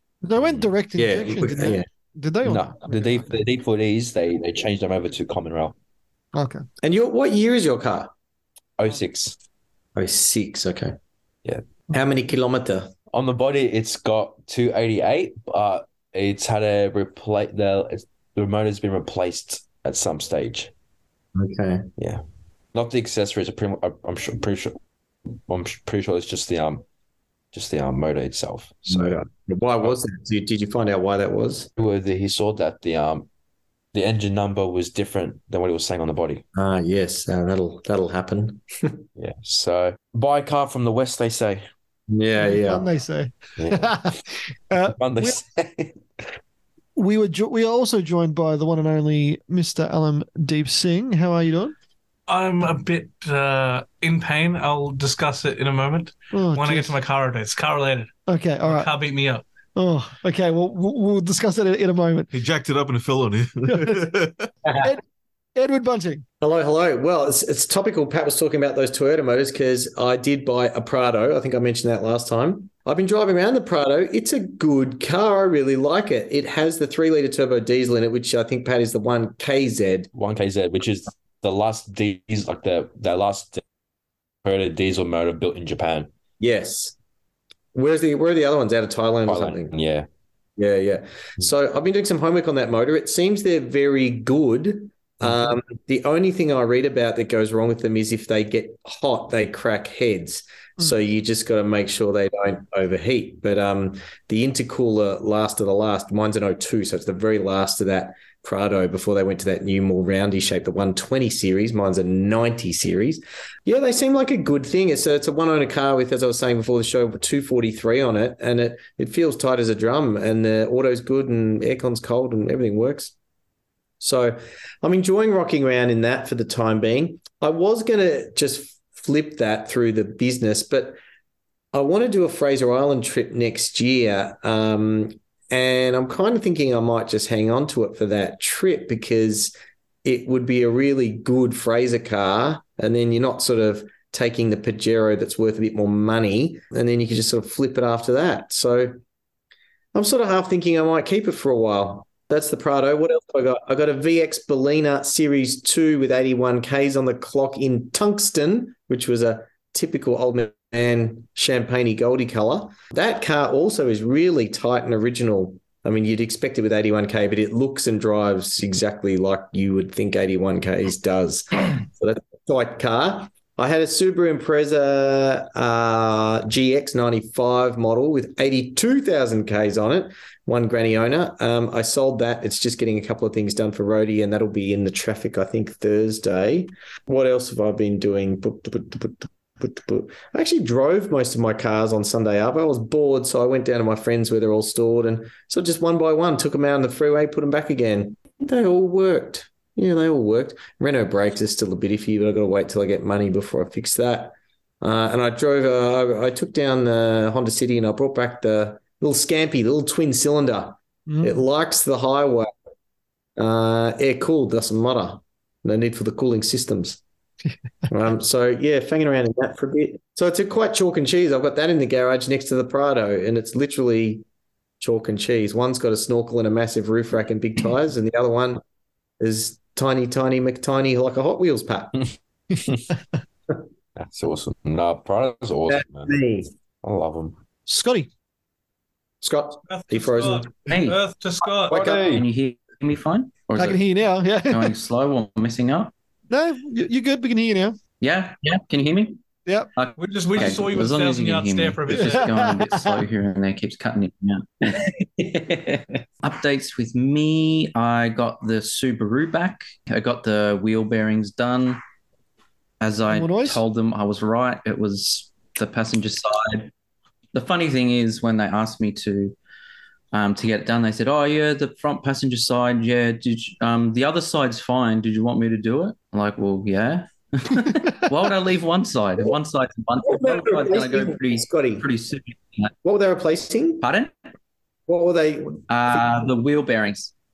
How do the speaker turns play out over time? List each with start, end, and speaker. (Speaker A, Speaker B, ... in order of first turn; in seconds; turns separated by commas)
Speaker A: 0.2-3.4, Speaker B: 0.4-0.7, Speaker C: 1.0-1.9, Speaker B: 2.4-5.8, Speaker A: 6.3-6.7, Speaker C: 6.8-8.1, Speaker B: 8.8-9.4, Speaker C: 9.9-10.9, Speaker C: 11.9-12.9, Speaker B: 13.1-20.7, Speaker C: 21.4-21.9, Speaker B: 22.7-24.8, Speaker B: 25.5-26.8, Speaker B: 27.5-29.2, Speaker C: 28.9-31.7, Speaker B: 31.8-33.3, Speaker B: 33.9-36.5, Speaker C: 36.5-39.0, Speaker B: 39.2-41.7, Speaker C: 42.1-42.9, Speaker A: 42.4-45.4, Speaker B: 43.6-44.1, Speaker B: 44.9-46.0, Speaker A: 47.0-51.8, Speaker D: 52.3-58.1, Speaker A: 56.3-57.0, Speaker A: 58.3-58.9, Speaker D: 58.7-59.4, Speaker A: 59.8-62.3, Speaker E: 62.3-64.5, Speaker A: 63.7-64.0, Speaker C: 64.6-64.9, Speaker A: 65.6-66.2, Speaker C: 66.4-80.1, Speaker B: 80.1-83.6, Speaker B: 84.4-86.1, Speaker C: 86.4-87.0, Speaker C: 87.7-89.7, Speaker B: 89.3-90.1, Speaker C: 90.6-123.1, Speaker C: 124.0-131.0, Speaker C: 131.7-139.5, Speaker C: 140.1-149.0, Speaker C: 149.9-212.5, Speaker A: 211.1-211.4, Speaker C: 213.4-217.0, Speaker C: 217.9-224.2, Speaker C: 224.8-228.6, Speaker C: 229.2-232.1, Speaker B: 234.0-236.2, Speaker C: 235.7-236.5, Speaker B: 236.8-237.4, Speaker A: 237.7-238.1, Speaker C: 239.2-240.5, Speaker D: 239.7-241.8, Speaker F: 240.7-241.0, Speaker C: 241.7-242.1, Speaker B: 241.7-242.2, Speaker F: 241.8-243.9, Speaker A: 243.6-244.8, Speaker F: 244.5-245.9, Speaker A: 246.3-247.8, Speaker F: 248.0-249.2, Speaker F: 249.8-261.8, Speaker D: 250.0-252.3, Speaker A: 251.9-253.0, Speaker F: 262.8-266.7, Speaker A: 263.1-263.6, Speaker F: 267.3-269.4, Speaker F: 270.1-282.7, Speaker C: 280.1-281.9, Speaker C: 282.8-283.9, Speaker F: 283.8-284.1, Speaker C: 284.9-286.0, Speaker F: 285.7-287.1